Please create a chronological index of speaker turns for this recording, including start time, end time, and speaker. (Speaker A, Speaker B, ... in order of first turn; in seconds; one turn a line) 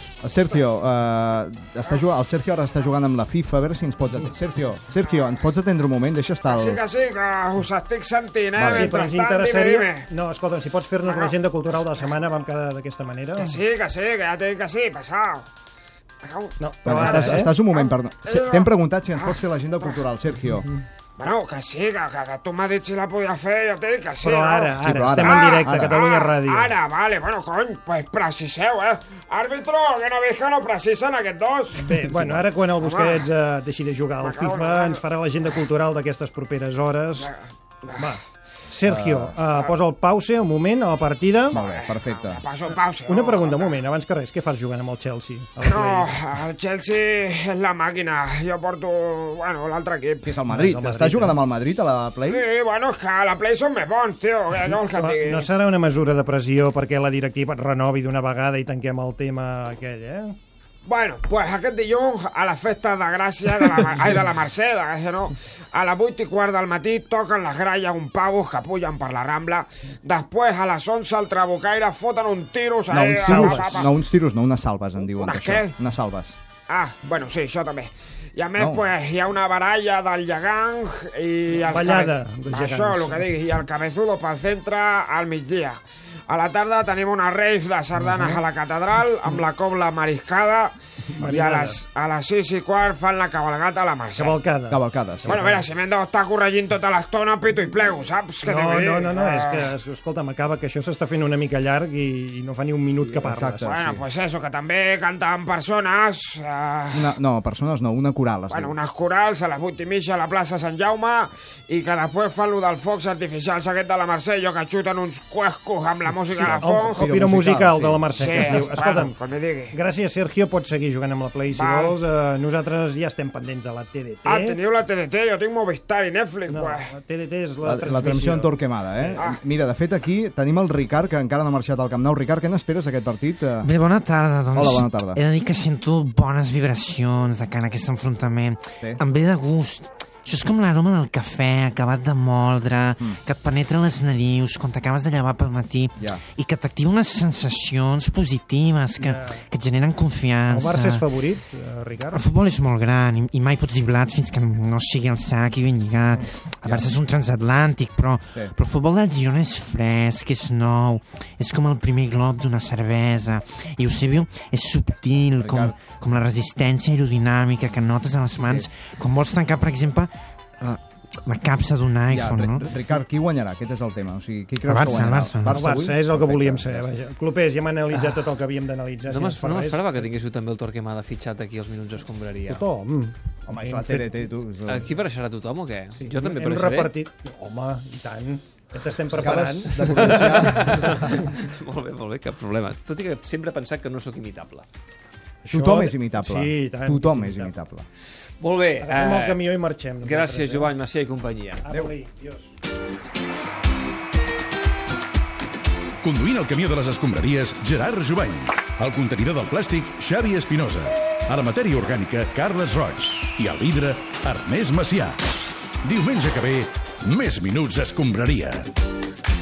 Speaker A: 0.2-6.8
Speaker B: 5.0-5.4
Speaker B: 6.5-10.1
Speaker A: 8.6-9.0
Speaker C: 8.6-13.6
Speaker B: 11.0-11.4
Speaker B: 13.4-15.5
Speaker B: 16.2-20.0
Speaker C: 16.6-17.6
Speaker A: 16.8-20.7
Speaker B: 21.2-33.3
Speaker C: 24.2-26.8
Speaker A: 24.8-26.0
Speaker C: 31.8-37.3
Speaker A: 32.2-32.4
Speaker B: 34.2-35.0
Speaker B: 37.2-38.1
Speaker C: 38.0-41.6
Speaker A: 38.9-39.4
Speaker A: 41.5-42.4
Speaker B: 41.5-43.8
Speaker C: 43.1-46.2
Speaker B: 45.6-50.4
Speaker A: 50.3-52.5
Speaker C: 50.5-51.4
Speaker B: 52.3-55.5
Speaker C: 54.9-60.4
Speaker B: 60.9-73.9
Speaker A: 72.9-76.4
Speaker C: 73.2-73.9
Speaker B: 75.2-75.7
Speaker B: 76.7-94.4
Speaker A: 78.6-78.9
Speaker C: 81.6-83.3
Speaker C: 88.0-88.4
Speaker C: 91.2-91.8
Speaker C: 94.2-95.7
Speaker A: 94.7-95.5
Speaker B: 95.3-99.7
Speaker C: 98.4-103.8
Speaker A: 103.0-104.0
Speaker B: 103.6-107.1
Speaker A: 106.9-108.8
Speaker B: 108.5-117.1
Speaker A: 116.3-118.9
Speaker C: 116.3-119.2
Speaker B: 118.2-119.8
Speaker C: 119.7-124.6
Speaker B: 121.5-122.0
Speaker B: 124.3-126.9
Speaker C: 126.5-129.2
Speaker A: 127.6-133.7
Speaker D: 133.6-151.1
Speaker A: 134.5-135.2
Speaker C: 149.0-149.4
Speaker C: 150.5-152.3
Speaker D: 152.1-172.7
Speaker A: 156.6-156.9
Speaker A: 165.4-165.8
Speaker A: 168.4-168.7
Speaker A: 172.1-176.9
Speaker D: 174.7-175.7
Speaker C: 175.5-180.0
Speaker E: 177.9-178.3
Speaker E: 179.1-182.6
Speaker C: 182.5-184.2
Speaker A: 183.5-185.0
Speaker E: 184.7-186.9
Speaker C: 186.0-190.7
Speaker A: 189.1-191.1
Speaker E: 190.1-194.7
Speaker C: 195.4-197.5
Speaker A: 195.5-197.9
Speaker E: 198.4-201.6
Speaker C: 198.8-200.7
Speaker C: 201.7-202.5
Speaker F: 206.0-218.7